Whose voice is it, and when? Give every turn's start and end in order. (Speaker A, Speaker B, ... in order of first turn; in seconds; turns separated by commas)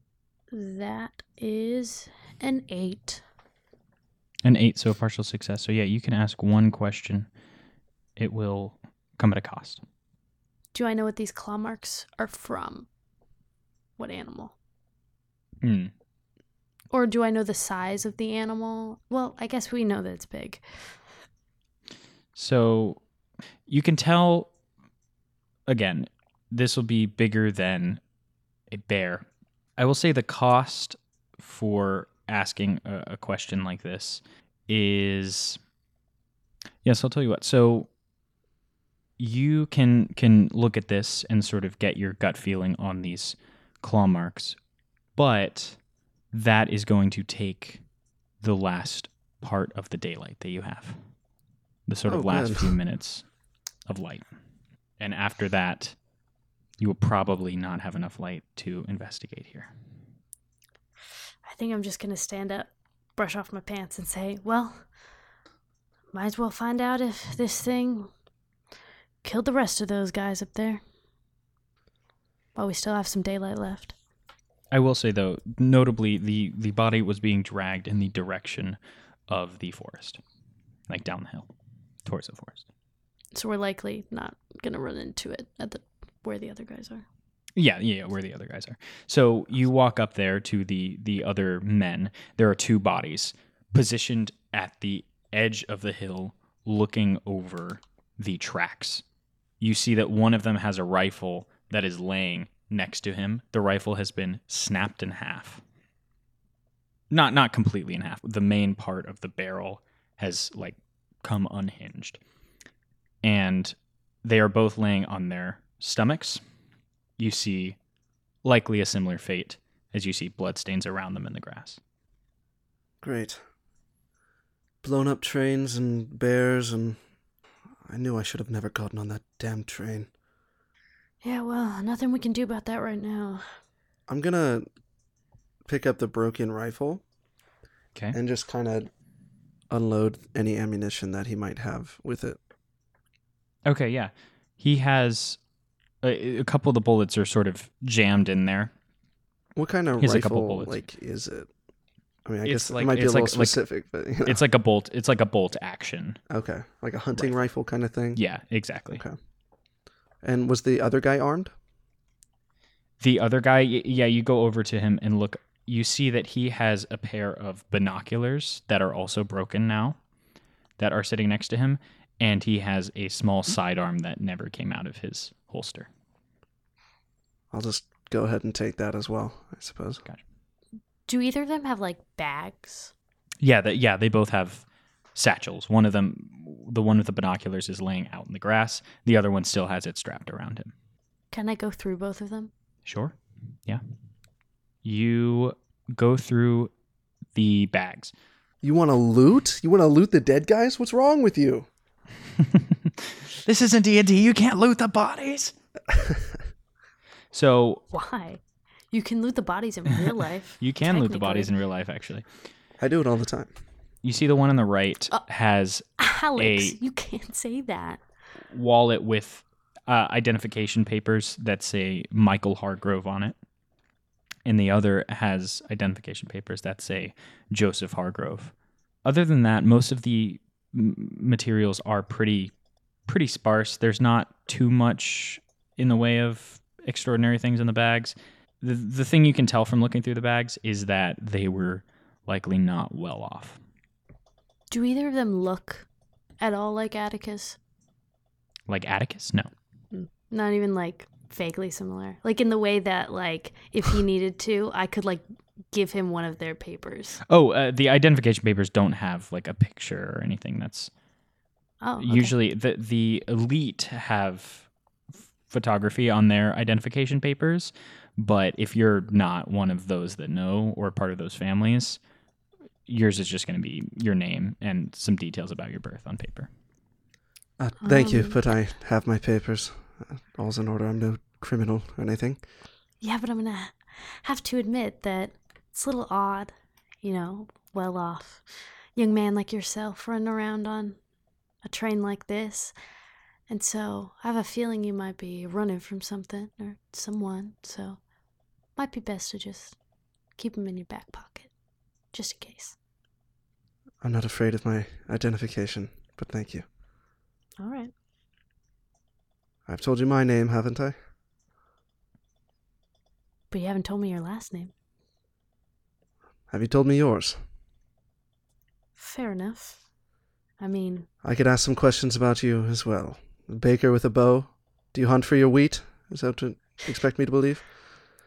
Speaker A: 0.5-3.2, Speaker B: 4.4-7.3, Speaker B: 8.2-9.8, Speaker A: 10.7-12.9, Speaker A: 14.0-14.5, Speaker B: 15.6-15.9, Speaker A: 16.9-21.1, Speaker B: 22.4-23.0, Speaker B: 23.7-24.5, Speaker B: 25.7-28.0, Speaker B: 28.7-29.3, Speaker B: 29.8-35.6, Speaker B: 36.8-37.9, Speaker B: 39.2-44.6, Speaker B: 45.1-47.9, Speaker B: 48.4-51.1, Speaker B: 51.9-53.3, Speaker C: 52.1-52.8, Speaker B: 53.9-54.3, Speaker B: 55.0-56.0, Speaker B: 56.8-59.7, Speaker A: 61.5-65.0, Speaker A: 66.1-68.1, Speaker A: 69.2-70.8, Speaker A: 72.5-74.0, Speaker B: 74.7-80.2, Speaker B: 80.9-81.5, Speaker B: 82.0-82.7, Speaker A: 83.3-87.0, Speaker B: 87.6-99.0, Speaker B: 99.6-105.6, Speaker B: 107.1-112.2, Speaker B: 113.2-116.4, Speaker B: 117.2-117.8, Speaker B: 118.4-121.8, Speaker C: 123.0-123.4, Speaker C: 124.8-127.0, Speaker C: 127.8-130.1, Speaker A: 131.2-133.6, Speaker C: 134.1-134.7, Speaker C: 135.7-137.0, Speaker C: 138.1-138.9, Speaker C: 139.7-142.4, Speaker B: 143.7-145.4, Speaker B: 146.0-148.7, Speaker C: 149.6-151.5, Speaker B: 150.0-150.8, Speaker C: 152.3-154.4, Speaker B: 152.4-153.6, Speaker B: 154.2-156.2, Speaker C: 156.3-158.2, Speaker B: 158.2-159.0, Speaker C: 158.9-159.2, Speaker C: 160.2-161.5, Speaker B: 163.0-170.0, Speaker B: 170.8-175.9, Speaker C: 177.5-180.0, Speaker A: 181.1-182.9, Speaker B: 183.4-190.7, Speaker A: 191.3-192.5, Speaker B: 192.8-193.8, Speaker B: 194.8-196.7, Speaker B: 197.3-198.1, Speaker C: 198.6-201.7, Speaker B: 203.4-205.6, Speaker B: 207.3-207.8, Speaker A: 207.9-211.5, Speaker B: 210.6-212.3, Speaker C: 212.8-213.5, Speaker B: 214.0-216.8, Speaker A: 216.0-218.0, Speaker B: 218.5-223.4, Speaker B: 224.4-232.5, Speaker B: 233.1-243.6, Speaker A: 244.7-245.9, Speaker A: 246.4-247.6, Speaker B: 248.7-249.5, Speaker A: 249.9-257.2, Speaker B: 257.3-260.9, Speaker A: 261.8-262.3, Speaker B: 262.0-264.7, Speaker B: 265.3-272.0, Speaker B: 272.9-276.5, Speaker C: 277.6-282.4, Speaker A: 277.8-278.4, Speaker A: 283.0-291.0, Speaker A: 291.6-292.8, Speaker A: 293.5-298.0, Speaker A: 298.8-299.8, Speaker A: 300.4-301.5, Speaker A: 302.1-302.8, Speaker C: 304.0-306.7, Speaker A: 307.6-307.9, Speaker C: 309.7-310.9, Speaker A: 313.5-314.7, Speaker C: 316.5-317.4, Speaker A: 319.0-319.9, Speaker A: 320.6-321.1, Speaker C: 321.2-327.7